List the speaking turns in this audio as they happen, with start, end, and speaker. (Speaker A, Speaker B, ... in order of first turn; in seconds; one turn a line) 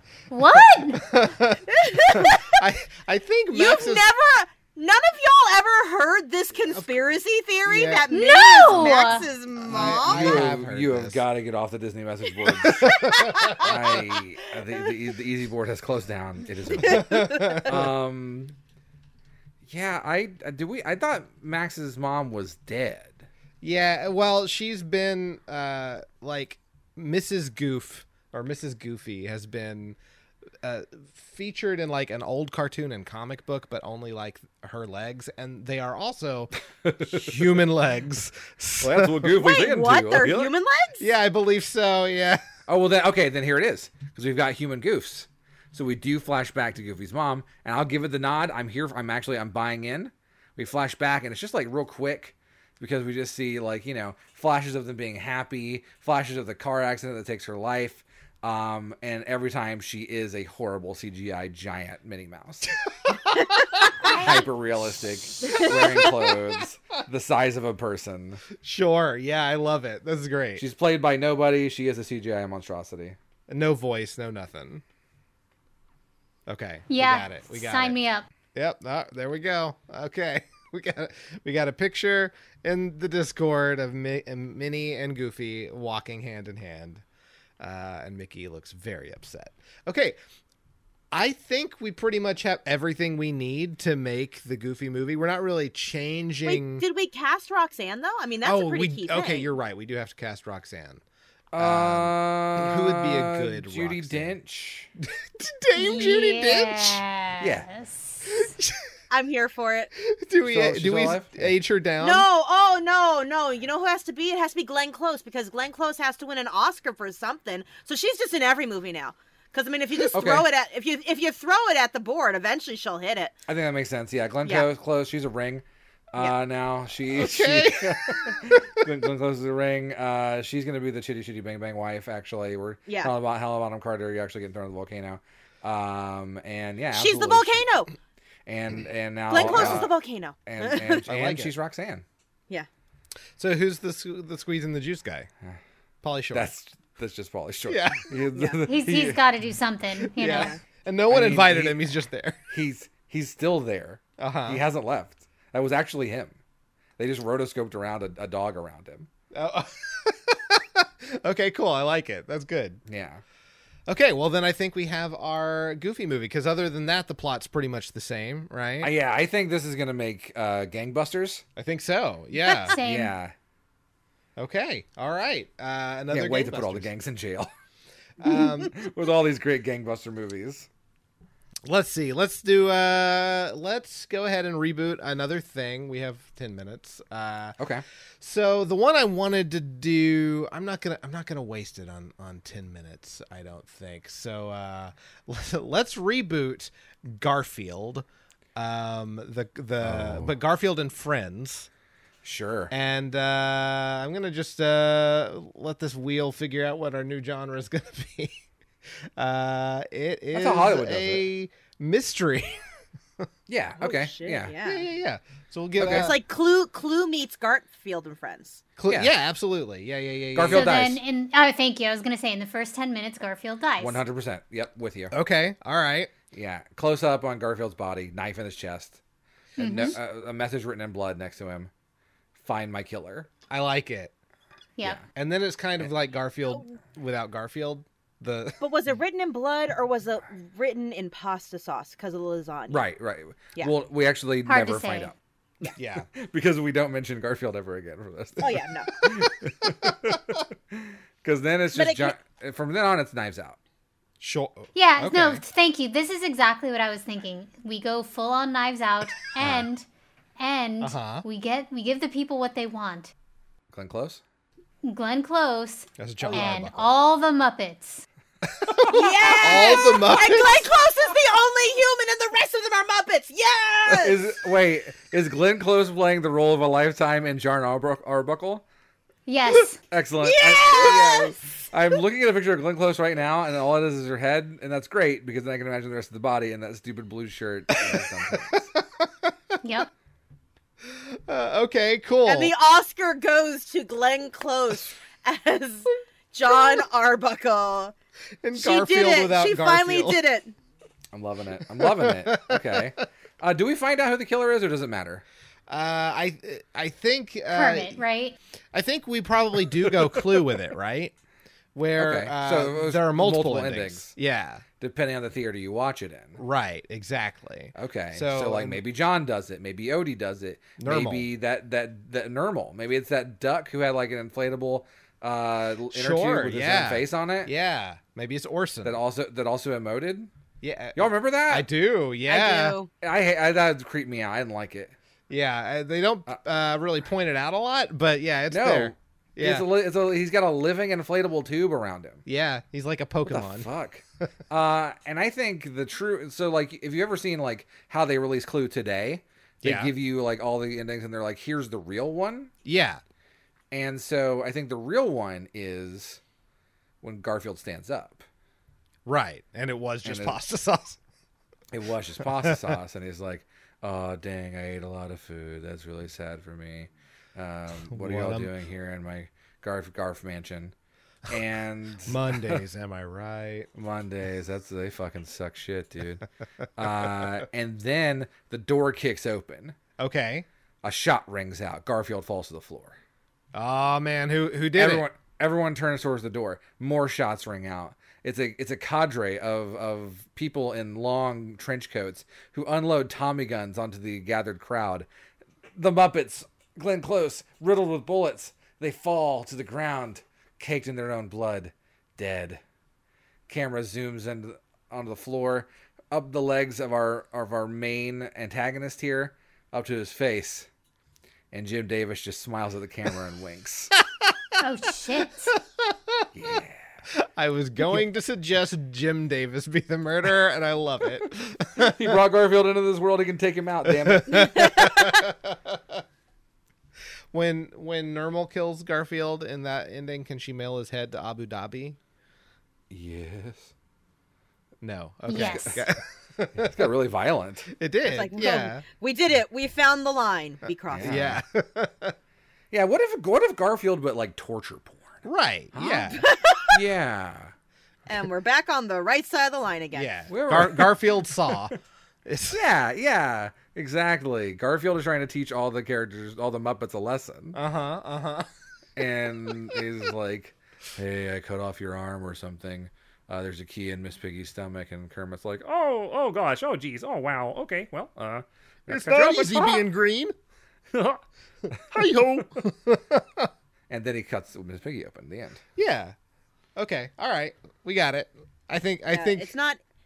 Speaker A: 0.3-1.1
Speaker B: 0.9-4.1
Speaker C: 1.7-2.6
Speaker C: 3.5-10.5
Speaker B: 7.7-8.1
Speaker A: 8.1-9.3
Speaker B: 9.6-11.2
Speaker D: 9.7-18.6
Speaker B: 12.6-13.8
Speaker C: 12.9-13.7
Speaker C: 16.7-17.7
Speaker B: 16.8-17.9
Speaker D: 19.7-23.3
Speaker B: 23.6-30.0
Speaker B: 30.6-39.4
Speaker D: 36.9-37.6
Speaker D: 38.8-40.5
Speaker C: 39.3-41.1
Speaker B: 41.0-42.4
Speaker D: 42.7-62.7
Speaker B: 63.1-63.5
Speaker A: 64.0-64.5
Speaker D: 64.1-68.5
Speaker C: 65.5-65.9
Speaker B: 65.7-66.3
Speaker B: 68.6-70.6
Speaker D: 70.6-73.2
Speaker B: 73.5-74.8
Speaker B: 76.5-78.0
Speaker A: 76.9-78.3
Speaker B: 78.5-87.0
Speaker B: 87.6-90.2
Speaker B: 91.1-96.8
Speaker C: 96.5-99.5
Speaker B: 98.4-101.0
Speaker D: 101.5-104.9
Speaker B: 101.6-104.4
Speaker B: 105.0-107.0
Speaker A: 105.8-108.5
Speaker D: 107.4-107.7
Speaker B: 108.2-108.9
Speaker C: 109.1-109.9
Speaker B: 110.0-112.3
Speaker D: 110.5-111.5
Speaker C: 112.0-123.3
Speaker D: 120.1-120.5
Speaker D: 123.5-137.6
Speaker B: 127.1-128.6
Speaker C: 132.9-133.1
Speaker C: 136.9-137.9
Speaker D: 138.5-142.0
Speaker C: 139.3-141.1
Speaker B: 139.4-139.9
Speaker B: 141.1-141.5
Speaker B: 143.4-145.3
Speaker B: 146.0-146.5
Speaker D: 146.3-149.2
Speaker B: 147.7-148.2
Speaker C: 148.3-148.6
Speaker A: 148.7-150.6
Speaker B: 150.0-152.4
Speaker C: 150.3-150.6
Speaker D: 151.1-151.9
Speaker D: 152.5-156.4
Speaker B: 154.2-154.6
Speaker D: 157.0-159.1
Speaker B: 159.3-162.8
Speaker D: 162.9-163.2
Speaker B: 163.9-168.9
Speaker D: 168.8-171.4
Speaker B: 171.6-172.8
Speaker A: 172.4-173.2
Speaker D: 172.7-173.3
Speaker B: 174.4-176.9
Speaker D: 176.1-177.5
Speaker B: 178.2-178.7
Speaker D: 178.7-180.7
Speaker B: 181.7-187.6
Speaker D: 187.6-187.8
Speaker B: 188.2-198.1
Speaker B: 198.6-201.7
Speaker D: 199.8-200.3
Speaker D: 202.2-202.7
Speaker B: 202.7-208.4
Speaker B: 209.2-212.7
Speaker D: 210.3-211.3
Speaker D: 213.5-214.6
Speaker C: 213.8-214.9
Speaker B: 214.6-216.2
Speaker C: 215.8-218.6
Speaker D: 215.8-216.1
Speaker B: 218.8-220.9
Speaker D: 220.3-221.0
Speaker A: 220.5-224.0
Speaker D: 223.8-225.1
Speaker B: 225.1-226.1
Speaker D: 226.3-229.0
Speaker A: 229.6-230.0
Speaker D: 229.6-231.7
Speaker D: 232.3-233.3
Speaker B: 233.5-234.1
Speaker B: 235.1-238.6
Speaker C: 238.6-242.8
Speaker D: 242.7-245.2
Speaker A: 244.5-245.1
Speaker B: 245.8-246.1
Speaker D: 246.2-253.6
Speaker C: 248.4-249.1
Speaker B: 249.1-250.1
Speaker C: 251.7-252.2
Speaker B: 254.2-255.4
Speaker A: 254.7-259.9
Speaker D: 259.4-259.7
Speaker A: 260.4-263.1
Speaker B: 260.8-261.2
Speaker D: 263.7-264.2
Speaker A: 264.8-268.0
Speaker B: 266.0-266.9
Speaker B: 268.5-270.7
Speaker D: 268.8-269.8
Speaker C: 268.8-274.2
Speaker D: 273.9-278.6
Speaker A: 279.3-279.8
Speaker D: 279.9-288.7
Speaker C: 280.2-281.3
Speaker B: 280.8-281.1
Speaker B: 287.8-289.3
Speaker A: 289.6-289.9
Speaker B: 290.8-292.5
Speaker C: 292.3-297.9
Speaker B: 298.4-300.2
Speaker C: 298.5-300.5
Speaker D: 301.1-305.2
Speaker B: 301.8-302.9
Speaker B: 305.7-308.0
Speaker A: 307.5-308.4
Speaker B: 308.7-311.1
Speaker B: 311.8-314.6
Speaker D: 312.0-314.1
Speaker D: 314.8-316.4
Speaker B: 316.4-318.8
Speaker D: 317.8-327.5
Speaker B: 320.8-321.3
Speaker B: 325.9-329.0
Speaker D: 328.8-330.3
Speaker B: 330.6-332.8
Speaker D: 330.9-331.7
Speaker C: 332.3-332.9
Speaker D: 333.0-334.9
Speaker B: 335.3-339.7
Speaker D: 338.5-342.2
Speaker B: 342.3-343.7
Speaker D: 343.3-352.5
Speaker B: 349.6-349.9
Speaker B: 352.6-353.0
Speaker D: 353.7-356.2
Speaker D: 357.0-358.2
Speaker B: 359.1-361.0
Speaker D: 360.0-360.4
Speaker D: 361.7-370.7
Speaker B: 362.2-362.7
Speaker B: 367.9-368.5
Speaker D: 371.3-372.6
Speaker B: 372.1-373.7
Speaker D: 373.8-376.3
Speaker D: 376.8-379.8
Speaker B: 380.0-380.5
Speaker D: 380.8-383.0
Speaker B: 383.5-385.1
Speaker D: 384.8-395.1
Speaker D: 395.8-402.6
Speaker D: 403.5-410.7
Speaker D: 411.5-413.9
Speaker A: 414.6-415.5
Speaker B: 415.9-416.3
Speaker D: 416.4-416.8
Speaker B: 417.1-422.2
Speaker D: 421.8-424.5
Speaker B: 423.9-426.0
Speaker C: 424.3-425.3
Speaker B: 427.3-432.0
Speaker D: 432.9-433.7
Speaker B: 434.8-436.9
Speaker D: 435.3-435.8
Speaker A: 435.3-435.8
Speaker D: 436.6-437.7
Speaker B: 437.7-438.8
Speaker C: 438.0-441.3
Speaker D: 440.9-441.4
Speaker B: 441.0-442.1
Speaker D: 442.7-445.2
Speaker B: 445.2-446.2
Speaker D: 445.7-447.5
Speaker C: 446.1-446.8
Speaker C: 448.1-450.1
Speaker B: 449.9-451.7
Speaker D: 450.3-451.2
Speaker B: 452.3-452.6
Speaker D: 452.5-457.6
Speaker B: 457.5-458.5
Speaker D: 459.0-465.6
Speaker E: 465.6-469.8
Speaker B: 468.9-470.3
Speaker E: 470.9-471.2
Speaker E: 471.9-472.6
Speaker B: 472.7-473.5
Speaker D: 473.9-475.6
Speaker B: 475.8-476.1
Speaker B: 476.8-479.5
Speaker C: 479.1-479.8